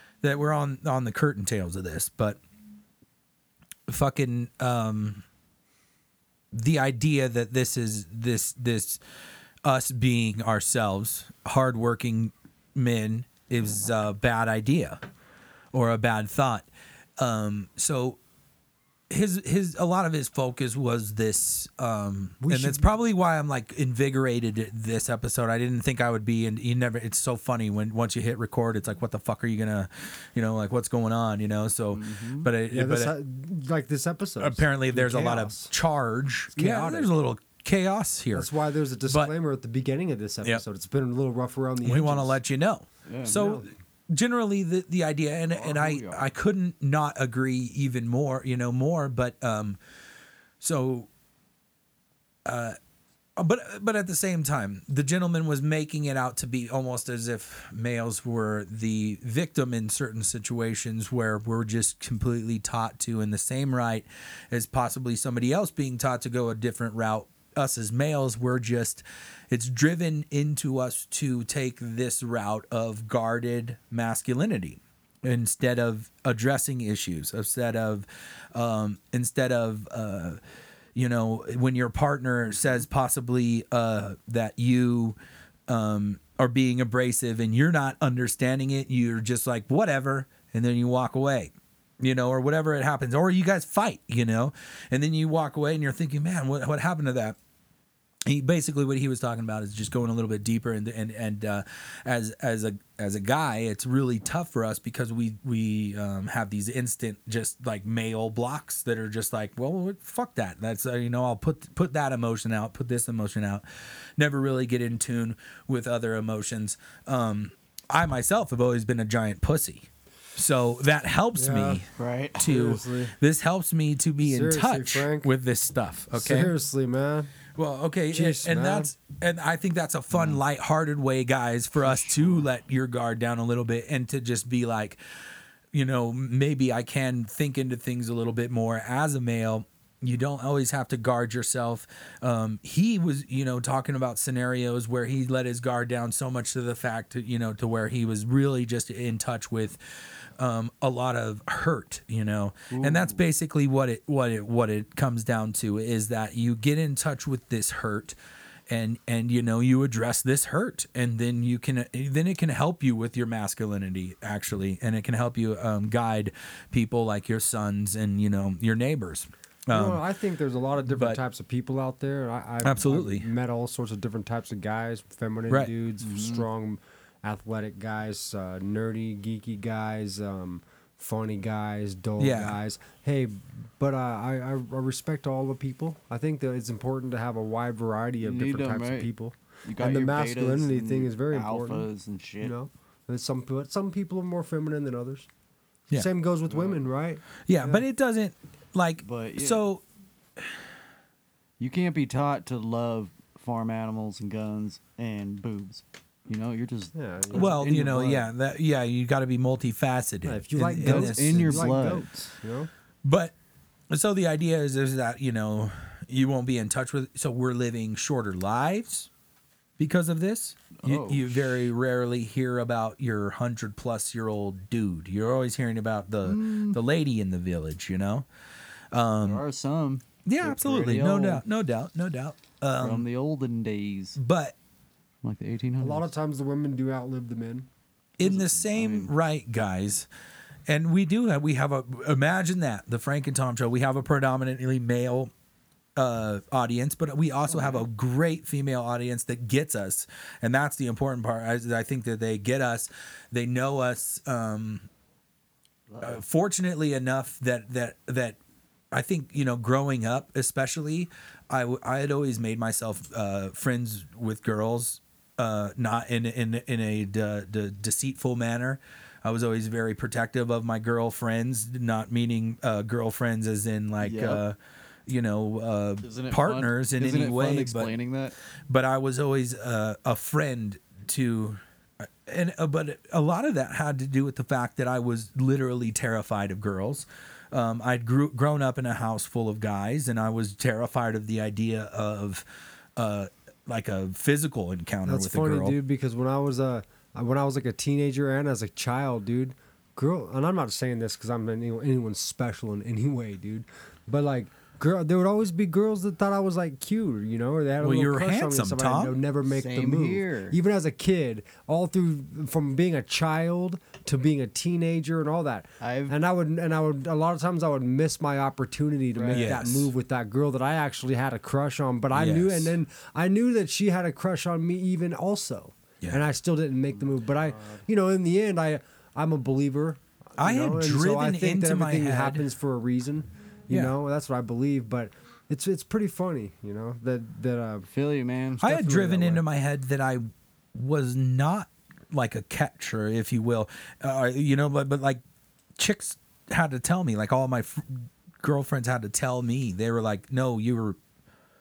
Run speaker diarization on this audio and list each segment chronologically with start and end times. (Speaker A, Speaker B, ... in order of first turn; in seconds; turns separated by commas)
Speaker A: 0.2-2.4, Speaker A: 3.9-5.2, Speaker A: 6.5-9.0, Speaker A: 9.6-15.0, Speaker A: 15.7-18.2, Speaker A: 19.1-33.1, Speaker B: 22.4-22.9, Speaker C: 31.9-32.5, Speaker B: 32.7-35.7, Speaker A: 34.4-38.5, Speaker B: 36.5-37.1, Speaker B: 38.3-42.4, Speaker A: 41.8-49.8, Speaker C: 43.1-43.4, Speaker B: 43.2-43.7, Speaker C: 45.5-46.3, Speaker A: 50.6-51.1, Speaker A: 52.5-52.8, Speaker A: 53.4-80.4, Speaker A: 81.0-85.2, Speaker A: 85.7-97.4, Speaker A: 98.3-113.6, Speaker A: 114.2-121.9, Speaker B: 121.3-121.8, Speaker C: 122.0-122.5, Speaker A: 122.4-126.5, Speaker B: 122.4-123.2, Speaker B: 124.2-125.3, Speaker B: 126.1-127.3, Speaker A: 127.6-135.0, Speaker B: 128.1-128.9, Speaker A: 135.7-149.8, Speaker A: 150.4-158.2, Speaker C: 152.7-153.2, Speaker A: 158.7-170.0, Speaker B: 169.7-191.9, Speaker A: 170.9-171.2, Speaker A: 172.6-173.3, Speaker C: 176.0-176.4, Speaker A: 182.2-182.6, Speaker C: 188.2-189.1, Speaker C: 189.7-192.6, Speaker B: 192.4-195.3, Speaker B: 195.9-197.8, Speaker C: 196.5-196.8, Speaker A: 197.5-199.8, Speaker C: 199.0-199.6, Speaker C: 201.6-208.3, Speaker B: 206.9-207.7, Speaker A: 207.3-211.8, Speaker B: 210.2-212.7, Speaker C: 210.8-212.3, Speaker A: 213.0-213.3, Speaker A: 213.9-219.1, Speaker A: 219.8-228.3, Speaker C: 220.8-221.5, Speaker C: 226.2-226.8, Speaker A: 228.9-229.4, Speaker C: 229.2-231.4, Speaker A: 230.3-233.1, Speaker C: 232.8-234.2, Speaker A: 234.2-234.6, Speaker C: 235.2-236.1, Speaker B: 235.8-237.7, Speaker A: 238.2-240.1, Speaker C: 238.2-239.1, Speaker A: 240.7-245.3, Speaker A: 246.0-254.9, Speaker C: 247.5-247.9, Speaker C: 255.9-256.2, Speaker A: 256.0-258.4, Speaker A: 258.9-277.9, Speaker C: 274.0-274.4, Speaker C: 276.0-278.4, Speaker A: 278.7-292.4, Speaker A: 293.0-295.8, Speaker B: 295.0-337.9, Speaker A: 307.8-309.2, Speaker C: 309.5-310.6, Speaker C: 315.8-316.1, Speaker C: 319.1-319.6, Speaker A: 319.3-319.9, Speaker A: 322.1-322.8, Speaker C: 327.0-327.8, Speaker A: 330.4-332.4, Speaker C: 337.9-338.9, Speaker A: 338.6-345.2, Speaker B: 338.6-339.4, Speaker A: 345.8-351.0